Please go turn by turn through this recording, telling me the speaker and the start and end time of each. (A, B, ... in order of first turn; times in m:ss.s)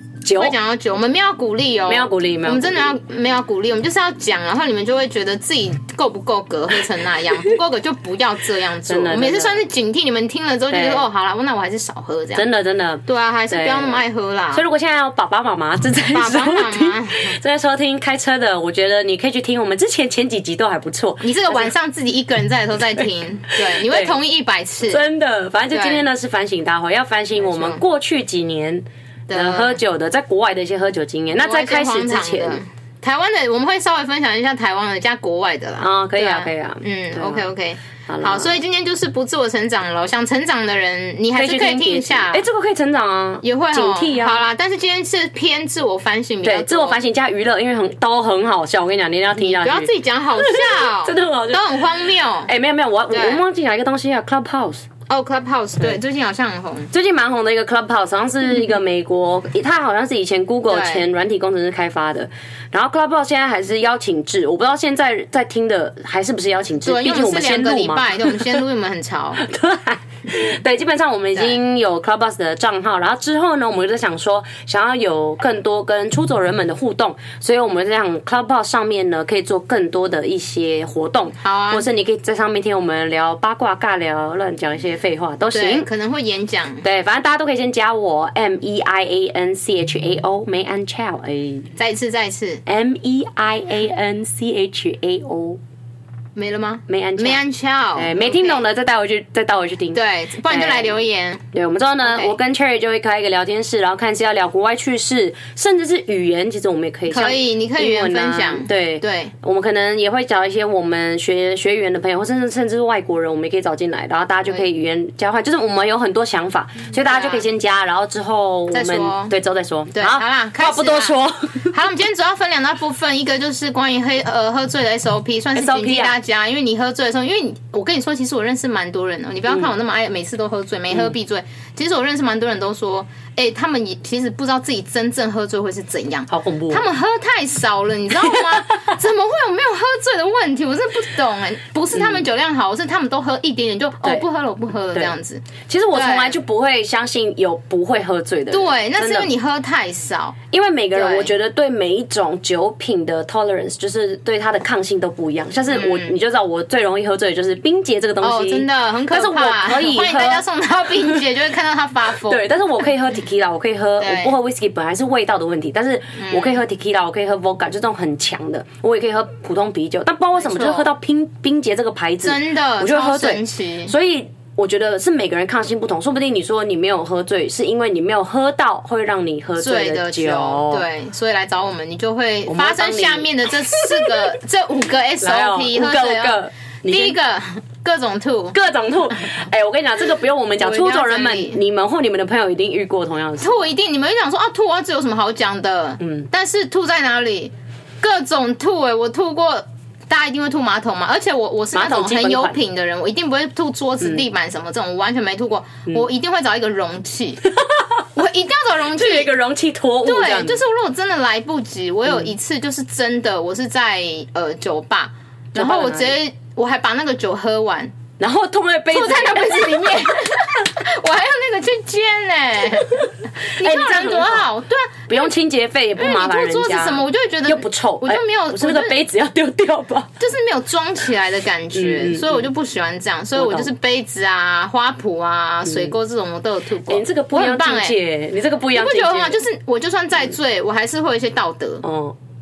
0:00.2-0:00.6 A
0:00.3-0:12.4 B
0:01.9-0:02.9 A
0:08.9-0:09.6 A
0:10.7-0:11.0 A
0:12.3-0:21.7 A
0:13.0-0:14.6 B
0:16.1-0:17.4 B
0:21.2-0:25.0 B
0:23.6-0:24.2 A
0:24.9-0:32.6 A
0:25.7-0:26.0 B
0:27.4-0:27.8 B
0:29.3-0:29.8 B
0:31.4-0:42.4 B
0:35.8-0:37.5 A
0:38.1-0:38.6 A
0:41.3-0:44.4 A
0:43.4-0:47.0 B
0:46.4-0:51.7 A
0:49.4-0:52.5 B
0:52.4-0:54.8 A
0:53.1-0:53.4 B
0:55.1-0:56.9 B
0:56.9-1:08.6 A
1:00.7-1:01.0 B
1:06.8-1:09.4 B
1:09.4-1:25.9 A
1:21.4-1:21.8 B
1:25.5-1:26.8 B
1:26.8-1:31.7 A
1:31.8-1:32.6 B
1:32.6-1:35.6 A
1:36.4-1:38.6 B
1:36.9-1:37.4 A
1:37.9-1:40.9 A
1:39.9-1:41.4 B
1:41.5-2:01.7 A
1:42.0-1:42.3 B
1:47.1-1:49.3 B
1:57.0-1:57.5 B
1:58.7-1:59.3 B
1:59.9-2:26.4 B
2:05.5-2:06.2 A
2:16.3-2:16.8 A
2:18.2-2:18.8 A
2:22.0-2:22.2 A
2:25.6-2:29.3 A
2:28.5-2:30.4 B
2:30.5-2:40.4 A
2:30.9-2:31.3 B
2:35.7-2:36.1 B
2:38.2-2:42.4 B
2:42.2-3:00.8 A
2:44.0-2:44.3 B
2:46.2-2:46.6 B
2:50.4-2:50.9 B
2:52.2-2:53.9 B
2:59.6-3:08.6 B
3:02.5-3:04.3 A
3:05.2-3:07.2 A
3:08.5-3:13.6 A
3:10.6-3:11.6 B
3:13.4-3:27.4 B
3:16.0-3:16.3 A
3:21.7-3:22.6 A
3:27.4-3:28.0 A
3:28.1-3:29.3 B
3:28.9-3:30.6 A
3:30.0-3:37.9 B
3:32.1-3:32.3 A
3:35.5-3:36.2 A
3:38.2-3:40.3 A
3:38.9-3:45.3 B
3:43.6-3:44.5 A
3:45.1-3:50.1 A
3:46.0-3:49.0 B
3:50.2-3:58.0 B
3:51.7-3:52.5 A
3:53.3-3:53.7 A
3:55.6-3:55.9 A
3:56.9-3:59.4 A
3:58.7-4:01.8 B
4:01.8-4:02.2 A